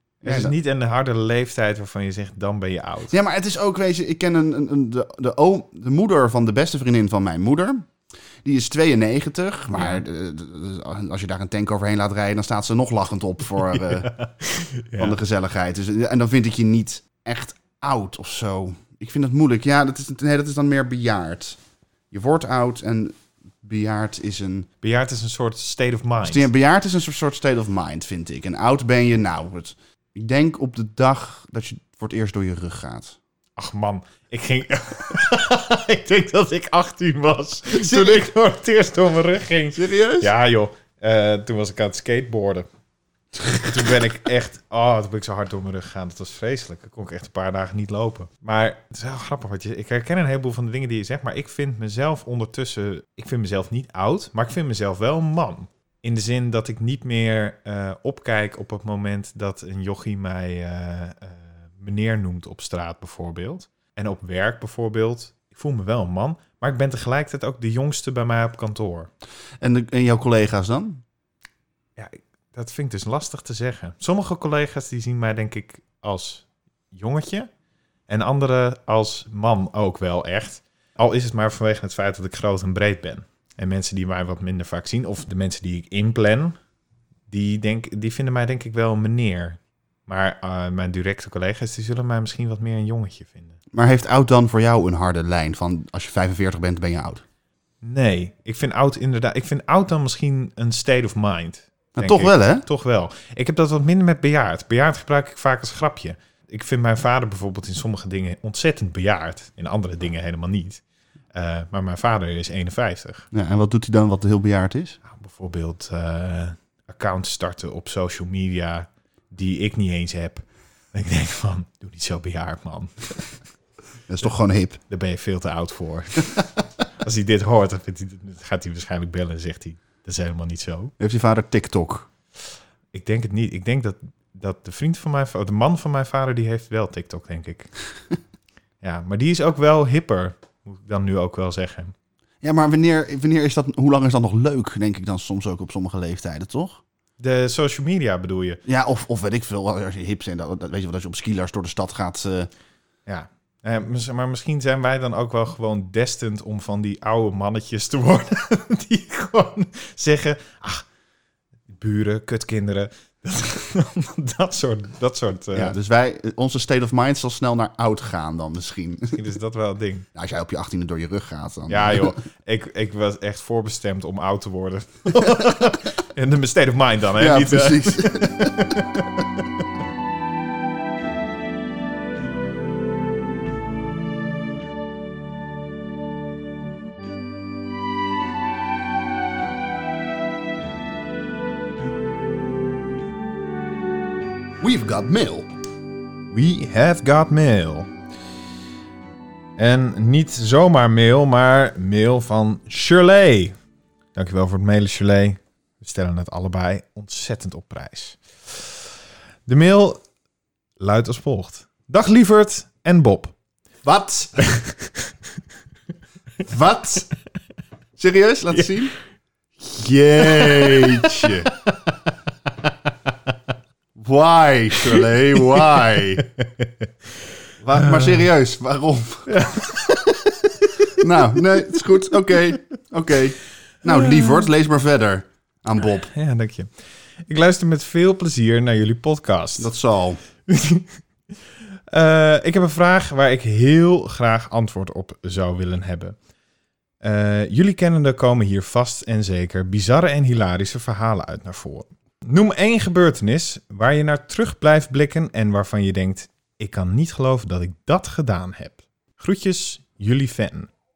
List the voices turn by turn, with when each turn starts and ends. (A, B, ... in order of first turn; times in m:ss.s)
0:00.2-0:03.1 A
0:00.2-0:00.5 B
0:03.1-0:07.9 B
0:08.4-0:14.1 B
0:09.7-0:10.0 A
0:13.7-0:15.2 A
0:15.0-0:21.6 B
0:22.1-0:24.7 B
0:24.8-0:26.5 A
0:26.2-0:33.2 B
0:33.6-0:42.6 A
0:37.7-0:38.3 B
0:39.8-0:40.3 B
0:43.5-1:09.1 A
1:09.6-1:11.0 B
1:12.0-1:17.5 A
1:18.1-1:26.6 A
1:27.3-1:33.6 A
1:33.7-1:37.2 B
1:37.8-1:50.8 A
1:42.0-1:42.6 B
1:51.3-1:53.3 A
1:53.3-1:55.0 B
1:55.0-2:03.4 A
2:04.1-2:04.8 B
2:04.9-2:06.5 A
2:07.0-2:10.9 A
2:11.0-2:12.1 B
2:12.9-2:17.7 A
2:18.8-2:21.9 A
2:22.4-2:26.8 B
2:27.2-2:28.6 A
2:28.6-2:32.5 B
2:33.1-2:40.8 A
2:41.7-2:45.7 A
2:45.5-2:49.2 B
2:49.1-2:50.1 A
2:50.1-2:52.2 B
2:51.7-2:58.9 A
2:57.2-2:59.0 B
3:14.6-3:15.5 B
3:16.3-3:17.9 A
3:19.6-3:23.6 A
3:24.1-3:28.8 A
3:29.5-3:30.0 A
3:30.8-3:33.3 A
3:33.8-3:34.4 B
3:34.4-3:35.1 A
3:36.4-3:37.1 B
3:38.0-3:38.9 B
3:39.7-3:41.5 B
3:40.2-3:41.7 A
3:44.0-3:46.2 B
3:46.2-3:46.9 A
3:47.6-3:49.3 B
3:47.8-3:48.2 A
3:49.3-3:51.0 A
3:50.9-3:56.1 B
3:53.9-3:54.4 A
3:56.1-3:56.7 A
3:57.3-3:59.7 A
3:59.6-4:00.2 B
4:00.5-4:01.0 A
4:01.9-4:06.2 A
4:07.0-4:20.7 A